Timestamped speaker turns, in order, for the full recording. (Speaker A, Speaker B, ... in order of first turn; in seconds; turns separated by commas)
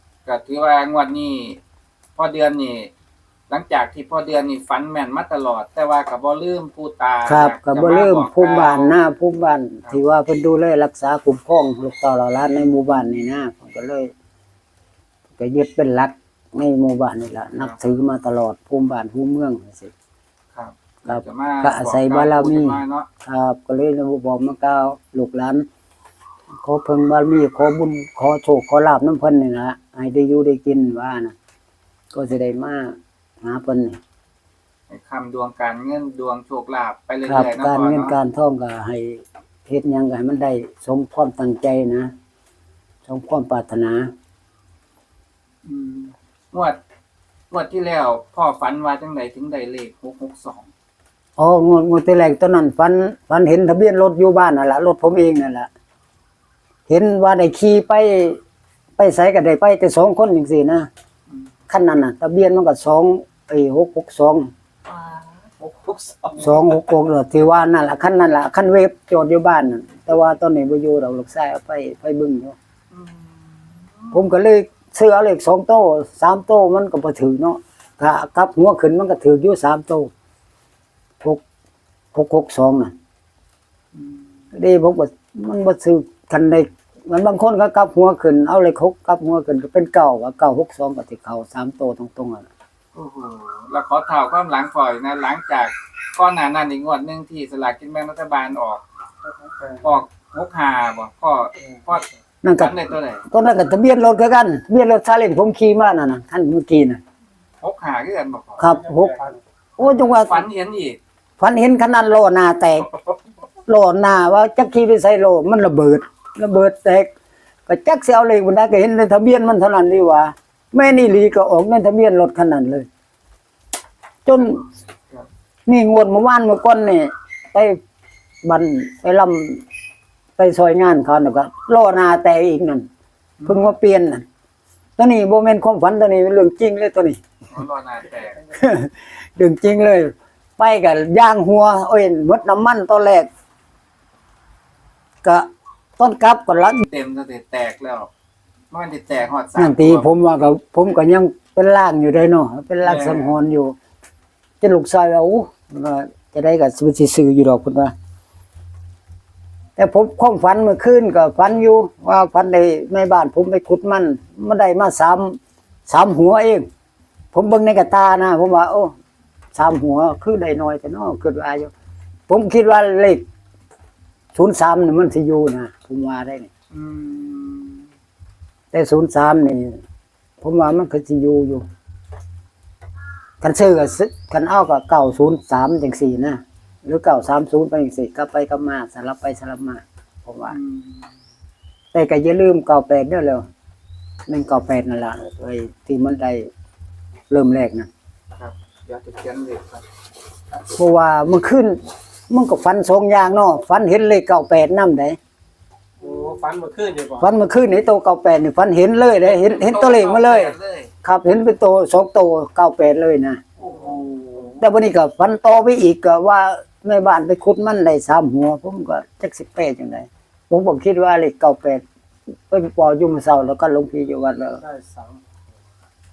Speaker A: 0.2-1.6, Speaker A: 2.2-2.9, Speaker A: 3.5-8.9, Speaker B: 7.2-14.1, Speaker B: 15.3-19.9, Speaker A: 20.6-23.1, Speaker B: 21.1-25.7, Speaker B: 26.6-31.4, Speaker B: 32.1-34.0, Speaker A: 34.9-38.2, Speaker B: 37.3-42.1, Speaker B: 43.1-44.1, Speaker A: 45.6-46.8, Speaker A: 47.5-50.7, Speaker B: 51.4-55.7, Speaker B: 56.9-58.4, Speaker B: 59.0-60.9, Speaker B: 61.7-64.5, Speaker A: 64.9-66.7, Speaker B: 66.4-72.6, Speaker A: 72.9-74.2, Speaker B: 74.1-80.1, Speaker B: 82.1-82.9, Speaker A: 83.9-84.2, Speaker B: 84.5-92.5, Speaker A: 92.9-98.8, Speaker C: 99.2-99.9, Speaker A: 99.8-103.2, Speaker B: 102.4-107.0, Speaker A: 107.6-108.6, Speaker B: 108.6-109.2, Speaker C: 108.7-109.4, Speaker B: 109.8-110.5, Speaker A: 109.8-111.0, Speaker B: 111.4-112.9, Speaker B: 113.7-117.1, Speaker B: 117.7-122.9, Speaker B: 124.3-124.6, Speaker B: 125.7-127.8, Speaker B: 128.4-129.6, Speaker B: 130.4-132.9, Speaker A: 133.4-133.8, Speaker B: 133.5-134.2, Speaker B: 135.0-137.2, Speaker A: 137.5-138.4, Speaker B: 138.5-143.3, Speaker B: 145.2-146.8, Speaker A: 146.8-148.1, Speaker A: 148.7-150.1, Speaker B: 149.6-153.8, Speaker A: 152.8-153.3, Speaker B: 154.6-157.9, Speaker B: 159.8-166.7, Speaker B: 167.3-168.9, Speaker B: 169.5-171.7, Speaker B: 172.3-173.3, Speaker B: 174.3-176.5, Speaker A: 176.7-177.9, Speaker B: 178.7-179.8, Speaker B: 180.4-181.7, Speaker B: 183.4-190.6, Speaker A: 190.5-191.1, Speaker B: 191.9-193.5, Speaker B: 194.3-196.5, Speaker B: 197.3-197.9, Speaker A: 198.4-199.8, Speaker B: 200.7-205.2, Speaker C: 206.0-207.3, Speaker B: 207.2-213.4, Speaker A: 209.2-210.9, Speaker A: 213.6-214.6, Speaker C: 213.6-214.6, Speaker B: 214.6-224.6, Speaker C: 224.6-225.2